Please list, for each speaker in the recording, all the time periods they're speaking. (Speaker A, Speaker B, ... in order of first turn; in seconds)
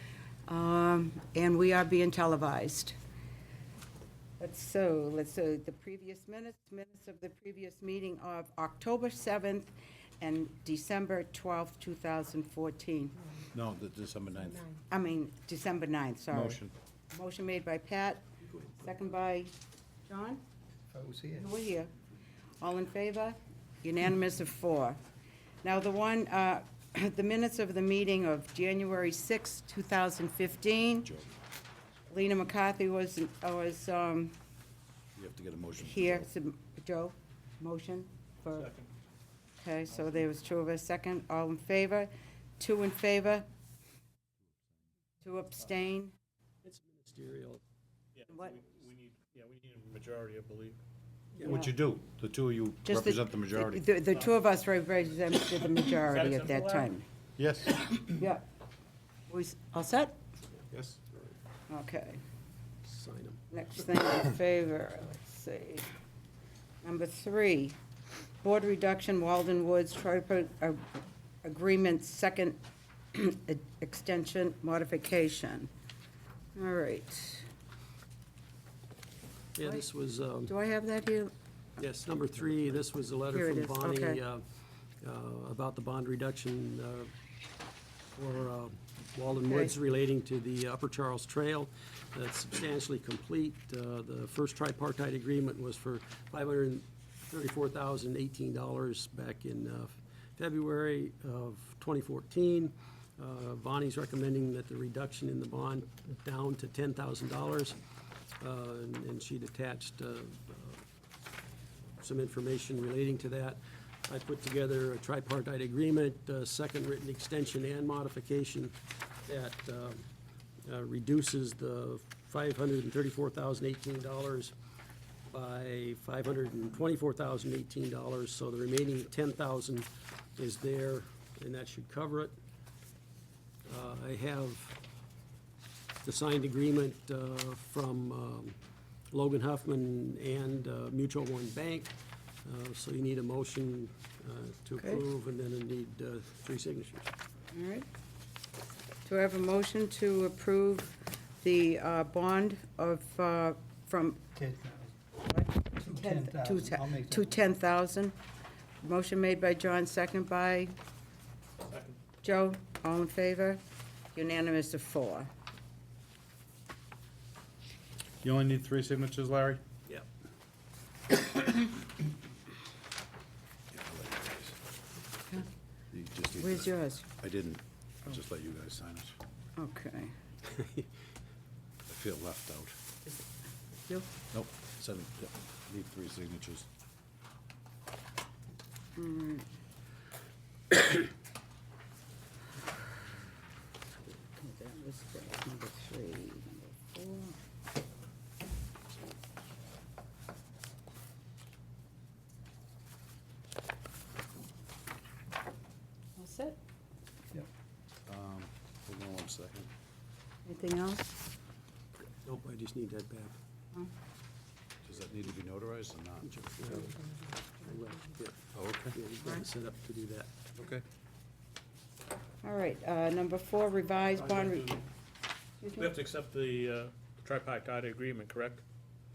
Speaker A: 0.5-3.0, 4.4-9.7, 10.2-13.2, 14.9-16.6, 17.1-19.5, 20.1-20.4, 21.3-21.9, 22.6-25.0, 25.6-31.1, 32.1-34.3, 35.8-38.7, 39.6-43.5, 45.2-46.1, 48.3-48.6, 51.4-51.8, 52.9-57.0, 58.0-58.5, 59.3-60.1, 61.7-62.2, 63.5-65.9, 66.8-67.8, 68.4-70.8, 71.4-72.6, 73.1-75.7, 76.6-77.5, 80.5-81.3, 83.3-84.2, 89.3-89.7, 147.5-147.9, 149.1-154.3, 155.3-158.1, 158.8-160.7, 162.2-163.6, 164.1-165.3, 176.4-177.1, 179.6-180.1, 189.0-189.5, 194.1-197.4, 206.2-206.6, 210.4-211.2, 222.4-224.8, 225.6-225.9
Speaker B: 13.5-14.7, 16.3-16.7, 35.1-36.3, 51.4-53.9, 57.4-58.1, 60.7-61.0, 168.2-169.6, 173.7-174.6, 175.9-179.2, 181.9-182.8, 184.3-186.7, 208.1-209.7, 214.8-216.3, 218.5-219.0, 220.6-220.8
Speaker C: 20.9-21.4, 154.4-155.0, 155.9-157.3
Speaker D: 38.5-38.9, 48.1-50.8, 56.1-56.9, 161.6-162.0, 224.2-224.8, 225.7-228.6
Speaker E: 46.6-47.6, 51.4-51.6, 60.6-61.4, 62.8-63.4, 79.6-80.5, 81.8-84.4, 85.0-87.1, 88.2-107.8, 108.4-110.8, 112.0-120.1, 120.7-124.5, 125.3-132.3, 133.7-134.8, 136.0-138.6, 139.1-147.1, 180.5-180.8, 212.2-213.4, 216.2-218.4, 218.9-220.3